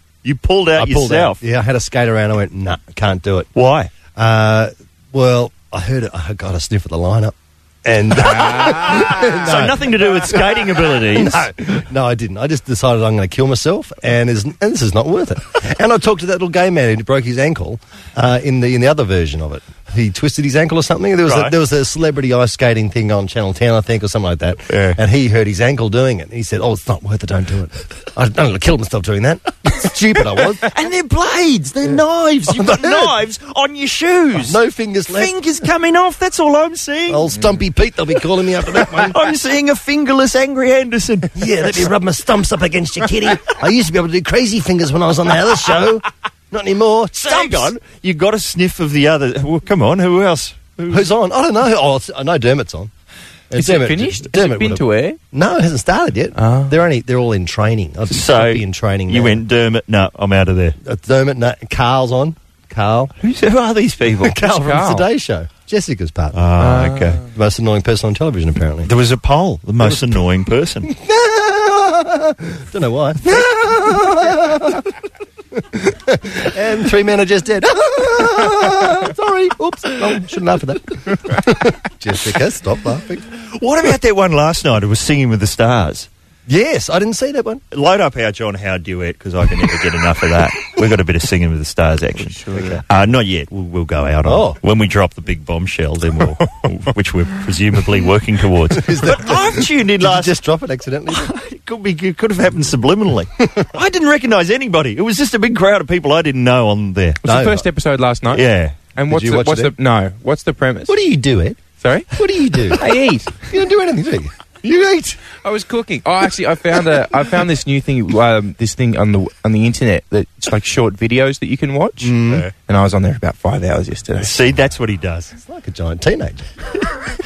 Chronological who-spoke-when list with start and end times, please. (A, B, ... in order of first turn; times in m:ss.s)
0:00.2-0:01.4 A
0:00.8-0:03.5 B
0:03.6-0:03.9 A
0:04.2-0:30.7 B
0:08.8-0:11.6 A
0:21.2-0:21.5 A
0:24.7-0:25.0 A
0:30.6-0:34.6 A
0:31.8-0:33.1 B
0:34.4-0:35.3 B
0:35.1-0:37.3 A
0:37.1-0:39.2 B
0:39.0-0:41.9 A
0:41.4-0:47.7 B
0:47.2-0:51.0 A
0:50.9-0:52.9 B
0:53.5-0:59.4 B
0:53.6-0:55.2 C
0:56.4-0:56.8 C
0:58.1-1:00.8 A
1:00.8-1:03.1 B
1:03.2-1:04.5 A
1:04.1-1:06.4 B
1:04.4-1:05.1 C
1:06.4-1:07.2 A
1:06.6-1:07.2 C
1:07.3-1:08.9 B
1:08.8-1:10.9 A
1:09.8-1:10.2 B
1:10.8-1:14.9 B
1:15.5-1:23.3 B
1:23.6-1:26.1 A
1:26.5-1:27.6 B
1:27.7-1:40.4 A
1:32.2-1:32.8 C
1:34.2-1:34.6 B
1:38.7-1:41.4 B
1:41.1-1:47.2 A
1:43.4-1:43.7 B
1:47.2-1:47.7 B
1:47.2-1:50.9 C
1:48.3-1:48.8 A
1:49.1-1:49.7 B
1:50.9-1:52.8 B
1:51.8-1:52.1 C
1:52.7-1:53.4 C
1:53.5-1:55.2 B
1:55.4-2:04.3 C
2:02.0-2:02.4 B
2:04.2-2:05.3 A
2:05.3-2:06.4 B